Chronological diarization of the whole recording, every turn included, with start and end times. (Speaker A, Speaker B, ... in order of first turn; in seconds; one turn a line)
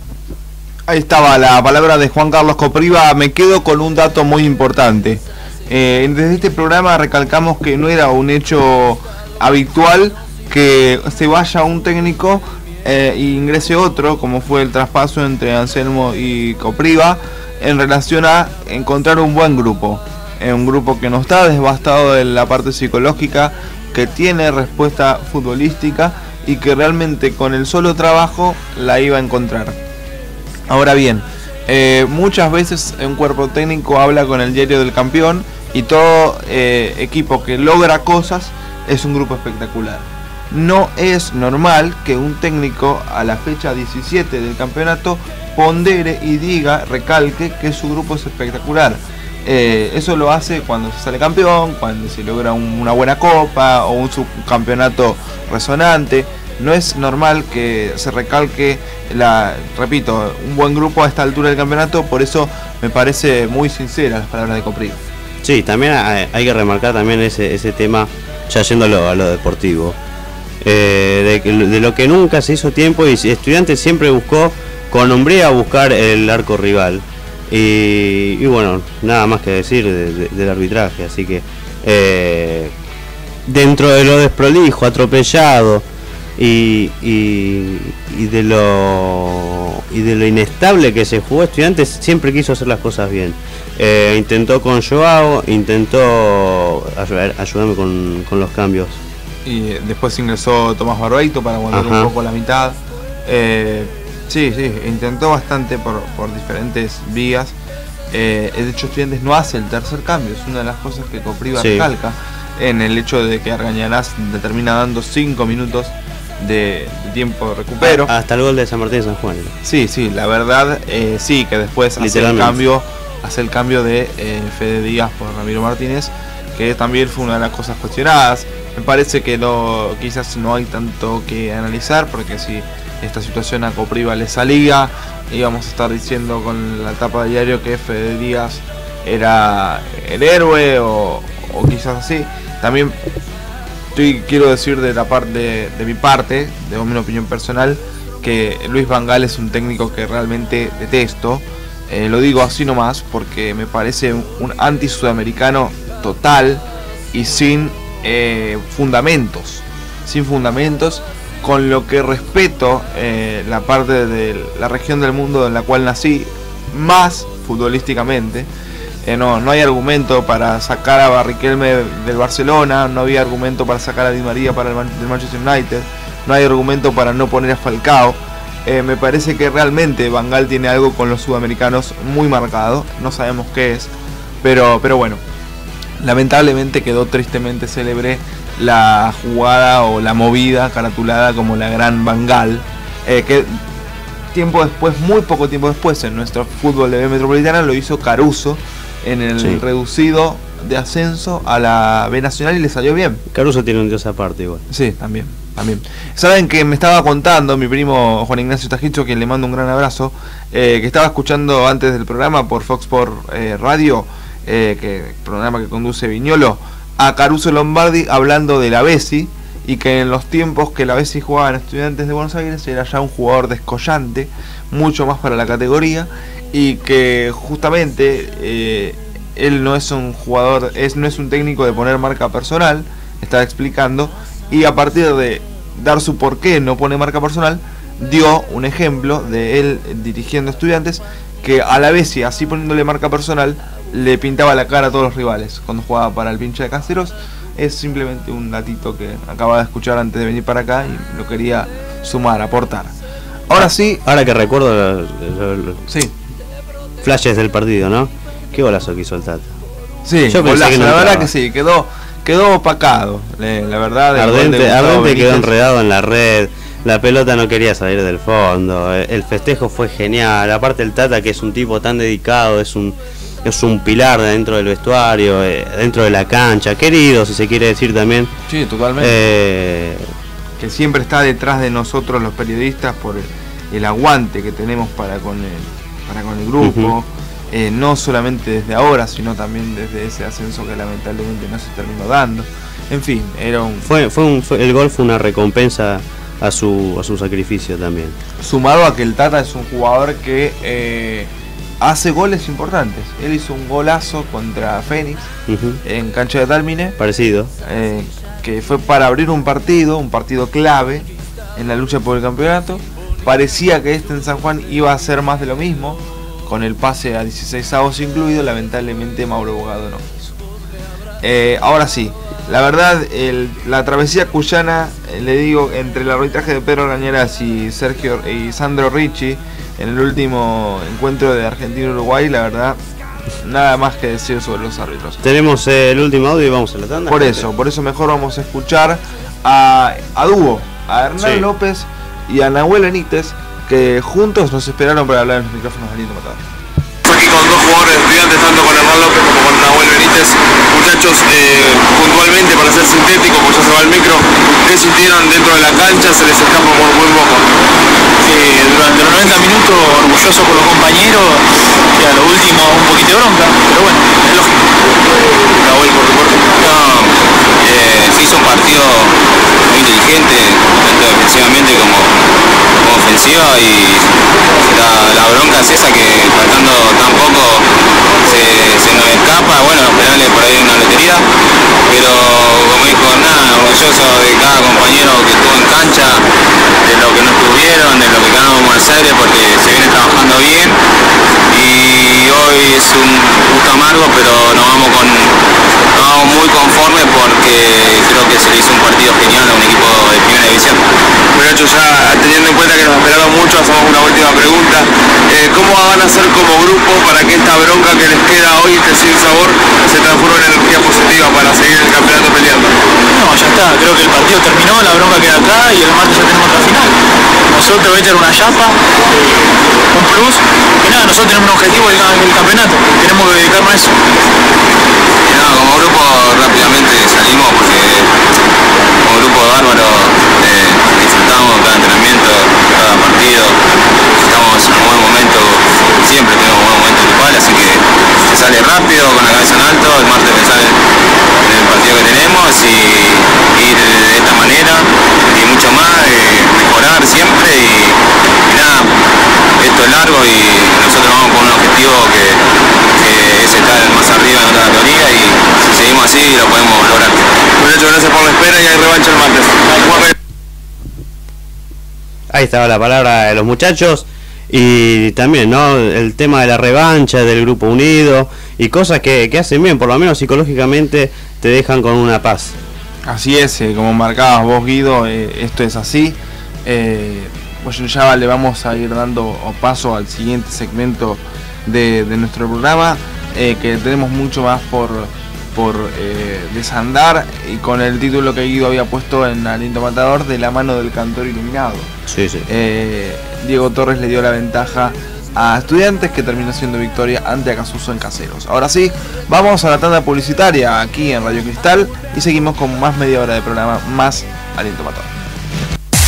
Speaker A: 0.9-29.8
Speaker A: 30.7-65.0
Speaker B: 65.4-70.0
Speaker B: 70.6-82.7
Speaker B: 83.5-85.8
Speaker B: 86.4-99.0
Speaker A: 99.5-107.5
Speaker B: 101.7-102.1
Speaker A: 108.1-118.1
Speaker B: 111.6-111.9
Speaker B: 117.8-119.5
Speaker A: 119.6-142.9
Speaker B: 122.0-122.6
Speaker A: 143.9-168.5
Speaker A: 169.0-183.9
Speaker A: 184.4-185.2
Speaker A: 186.0-193.6
Speaker A: 194.3-203.2
Speaker B: 203.3-204.6
Speaker A: 204.7-252.9
Speaker A: 253.5-254.0
Speaker B: 254.1-255.8
Speaker B: 257.0-259.5
Speaker A: 260.1-265.5
Speaker B: 260.3-261.3
Speaker B: 264.1-278.3
Speaker A: 278.5-279.2
Speaker B: 279.0-280.1
Speaker A: 280.6-293.9
Speaker B: 286.6-287.0
Speaker B: 293.8-298.2
Speaker A: 298.4-301.3
Speaker A: 301.8-305.3
Speaker B: 305.5-305.8
Speaker A: 305.8-307.0
Speaker B: 307.0-307.5
Speaker A: 307.6-320.3
Speaker A: 321.2-332.8
Speaker A: 333.4-335.2
Speaker B: 335.2-337.5
Speaker A: 337.1-346.4
Speaker B: 341.2-341.5
Speaker C: 347.1-357.5
Speaker D: 358.2-361.4
Speaker D: 362.0-364.5
Speaker C: 365.6-366.5
Speaker E: 366.6-369.1
Speaker E: 369.7-372.1
Speaker E: 372.8-374.1
Speaker E: 374.7-377.7
Speaker E: 378.2-381.2
Speaker E: 381.9-386.2
Speaker E: 386.8-390.8
Speaker E: 391.5-395.3
Speaker E: 395.9-400.8
Speaker C: 401.4-412.8
Speaker D: 413.1-417.0
Speaker D: 417.5-418.8
Speaker D: 419.9-423.9
Speaker E: 425.3-428.1
Speaker E: 429.0-433.6
Speaker E: 434.2-440.8
Speaker E: 441.4-448.9
Speaker E: 449.6-452.4
Speaker E: 453.0-457.3
Speaker C: 457.6-460.1
Speaker B: 462.3-472.6
Speaker A: 473.1-491.9
Speaker B: 492.1-492.5
Speaker A: 492.5-505.1